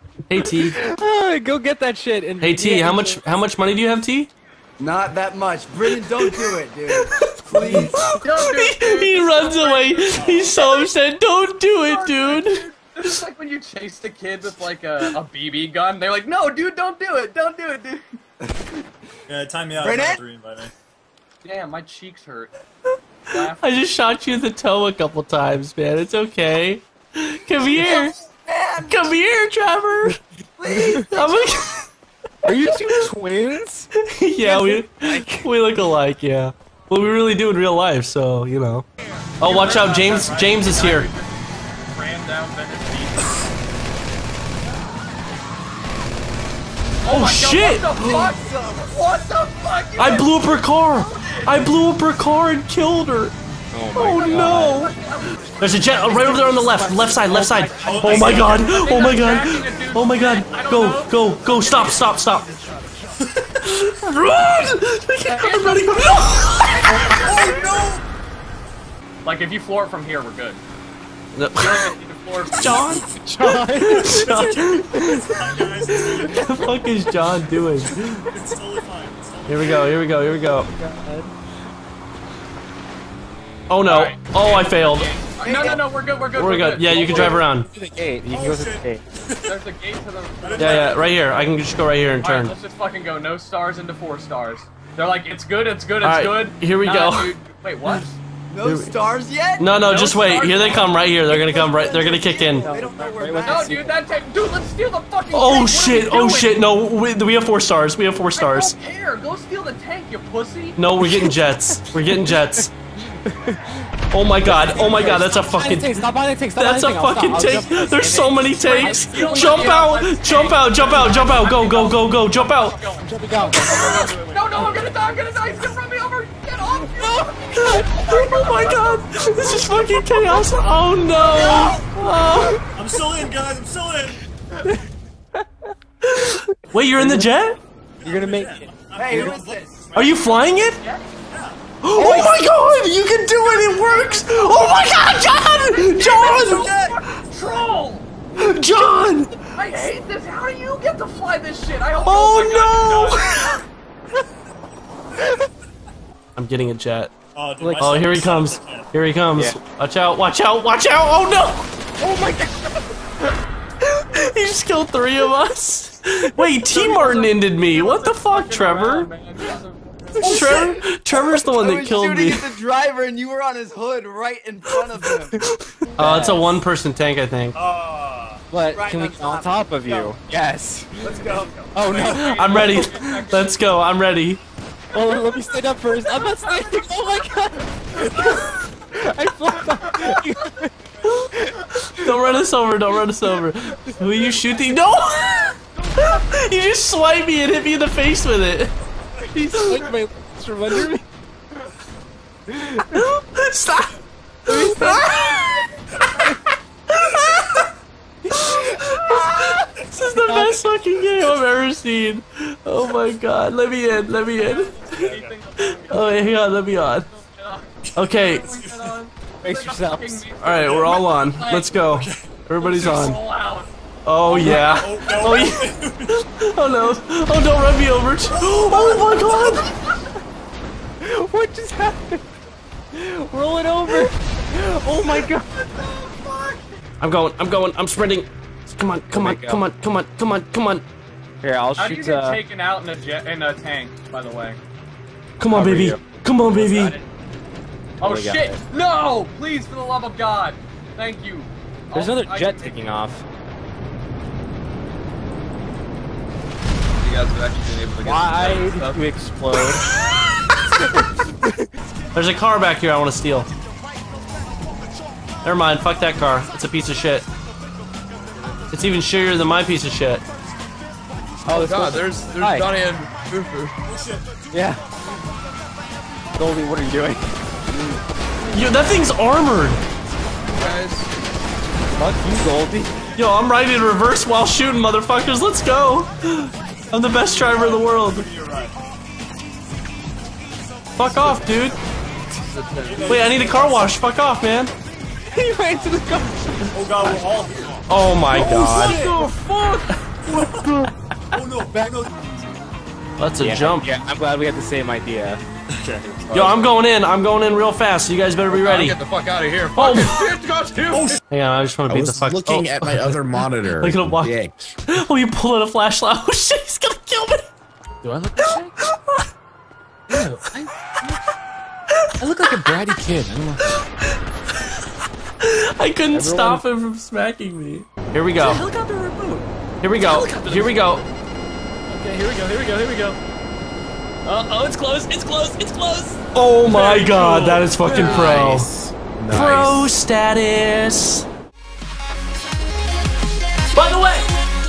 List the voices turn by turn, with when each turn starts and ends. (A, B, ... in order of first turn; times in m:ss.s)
0:00.3-0:00.8 A
0:00.4-0:03.2 B
0:02.4-0:04.3 A
0:04.8-0:08.0 C
0:07.2-0:12.6 A
0:07.9-0:10.9 D
0:10.1-0:10.6 E
0:11.8-0:18.1 D
0:19.3-0:20.7 E
0:19.8-0:20.2 C
0:21.4-0:22.5 D
0:23.3-0:23.8 D
0:23.4-0:28.2 A
0:27.7-0:29.0 C
0:28.9-0:30.2 A
0:30.6-0:31.7 C
0:31.1-0:31.8 A
0:32.4-0:33.9 B
0:32.7-0:33.0 A
0:34.0-0:38.9 A
0:34.4-0:35.5 B
0:39.0-0:43.5 D
0:39.4-0:41.1 A
0:47.0-0:51.6 D
0:47.1-0:48.2 A
0:48.0-0:49.0 C
0:50.0-0:53.4 A
0:53.7-0:54.9 B
0:54.0-0:54.9 A
0:54.0-0:56.5 D
0:55.6-1:02.5 A
0:56.1-0:58.4 B
0:57.8-0:58.7 E
0:58.1-1:02.1 D
1:03.6-1:07.0 A
1:05.4-1:06.3 D
1:06.9-1:07.9 D
1:06.9-1:07.7 B
1:07.2-1:08.0 E
1:09.2-1:10.6 D
1:11.4-1:11.9 A
1:11.6-1:13.0 D
1:12.6-1:14.9 A
1:13.1-1:14.2 B
1:13.7-1:16.8 E
1:14.9-1:15.4 B
1:16.3-1:18.3 A
1:17.9-1:20.1 E
1:19.5-1:20.7 A
1:20.2-1:21.3 B
1:23.7-1:25.1 A
1:23.8-1:27.5 D
1:25.4-1:25.8 C
1:26.3-1:27.7 A
1:27.0-1:29.0 B
1:28.3-1:29.5 E
1:29.5-1:31.2 D
1:30.4-1:31.3 E
1:30.6-1:32.6 A
1:32.2-1:38.2 D
1:36.0-1:37.4 A
1:38.5-1:43.8 C
1:38.6-1:39.0 A
1:39.6-1:42.7 A
1:39.8-1:40.9 D
1:42.6-1:43.9 B
1:43.4-1:46.6 D
1:45.3-1:48.8 A
1:48.3-1:50.8 D
1:50.8-1:52.7 A
1:51.0-1:53.8 B
1:54.1-2:02.8 A
1:54.5-1:59.8 B
1:54.5-1:55.5 D
1:58.6-2:10.4 D
2:03.0-2:04.0 B
2:03.5-2:05.4 E
2:06.8-2:08.3 B
2:07.6-2:12.6 A
2:11.2-2:12.1 D
2:12.3-2:12.6 B
2:12.7-2:14.2 E
2:16.0-2:17.6 A
2:17.0-2:17.3 B
2:18.0-2:20.6 E
2:18.0-2:18.7 B
2:19.0-2:19.7 C
2:20.0-2:20.8 A
2:20.8-2:21.1 D
2:21.3-2:21.6 E
2:21.8-2:26.9 A
2:22.0-2:22.4 B
2:23.4-2:28.1 D
2:28.4-2:29.4 A
2:29.5-2:33.6 D
2:32.0-2:33.6 A
2:36.4-2:37.1 A
2:37.4-2:38.9 E
2:37.6-2:38.0 B
2:37.8-2:41.7 A
2:42.0-2:42.8 B
2:43.8-2:49.1 A
2:46.6-2:50.6 D
2:50.2-2:50.7 E
2:50.2-2:52.5 A
2:50.2-2:55.4 C
2:55.9-2:57.6 A
2:55.9-2:56.6 B
2:57.5-2:58.4 E
2:58.5-3:01.1 B
2:58.7-2:59.6 C
2:59.8-3:00.2 E
3:01.0-3:03.8 D
3:01.8-3:02.9 B
3:01.8-3:02.2 E
3:02.2-3:04.4 A
3:04.9-3:10.7 B
3:06.4-3:06.8 D
3:11.0-3:18.7 A
3:11.4-3:12.1 B
3:15.8-3:16.1 D
3:19.2-3:21.0 B
3:19.5-3:19.8 A
3:22.5-3:23.0 B
3:22.8-3:24.0 A
3:24.5-3:25.6 A
3:24.5-3:25.4 B
3:26.9-3:27.7 A
3:28.3-3:29.0 B
3:28.3-3:35.0 A
3:30.0-3:30.6 B
3:34.4-3:41.8 D
3:35.0-3:35.4 E
3:35.6-3:37.1 A
3:38.0-3:38.5 A
3:38.5-3:39.0 E
3:39.4-3:40.2 B
3:40.4-3:43.2 A
3:41.9-3:43.2 E
3:42.6-3:43.7 D
3:44.0-3:49.7 A
3:44.3-3:46.1 E
3:44.3-3:44.7 D
3:44.4-3:44.8 B
3:48.4-3:49.4 E
3:51.0-3:52.3 B
3:52.9-3:55.6 B
3:55.8-3:56.6 D
3:57.0-4:00.8 A
3:59.2-3:59.6 B
4:01.4-4:02.4 B
4:01.8-4:04.6 D
4:05.4-4:07.0 A
4:05.5-4:07.0 B
4:08.0-4:08.6 B
4:08.0-4:13.1 D
4:11.9-4:13.2 B
4:17.0-4:17.9 D
4:18.0-4:19.9 B
4:18.1-4:19.0 F
4:21.0-4:21.7 B
4:22.1-4:23.5 A
4:25.4-4:27.3 A
4:28.7-4:30.2 A
4:31.5-4:32.7 B
4:31.6-4:32.7 F
4:32.2-4:33.7 D
4:33.8-4:34.3 E
4:34.5-4:34.8 B
4:36.4-4:37.4 B
4:38.5-4:39.8 A
4:40.5-4:41.1 D
4:42.0-4:43.0 B
4:43.2-4:48.3 A
4:47.2-4:48.8 E
4:51.0-4:51.8 A
4:52.4-4:53.1 D
4:52.8-4:54.0 E
4:53.1-4:54.7 A
4:55.3-4:57.6 B
4:56.7-4:57.8 E
4:57.9-4:59.0 A
4:58.3-4:59.9 D
4:58.4-4:59.3 E
5:00.2-5:02.3 E
5:03.2-5:04.1 A
5:03.4-5:05.4 B
5:05.7-5:06.4 E
5:06.3-5:06.6 G
5:06.3-5:09.0 A
5:08.6-5:10.4 G
5:08.7-5:10.8 F
5:09.8-5:10.4 A
5:10.9-5:11.2 E
5:11.3-5:17.5 A
5:11.9-5:14.6 G
5:18.0-5:18.7 B
5:18.8-5:19.2 A
5:20.1-5:21.2 B
5:22.2-5:23.6 B
5:23.7-5:24.2 A
5:25.4-5:28.6 A
5:26.1-5:26.6 B
5:28.4-5:29.4 B
5:29.8-5:31.0 A
5:30.0-5:30.7 B
5:31.9-5:33.1 B
5:34.3-5:36.2 B
5:36.3-5:38.7 A
5:37.0-5:37.6 E
5:37.9-5:38.2 B
5:38.0-5:38.4 D
5:38.2-5:39.9 G
5:39.3-5:41.3 A
5:43.7-5:44.3 A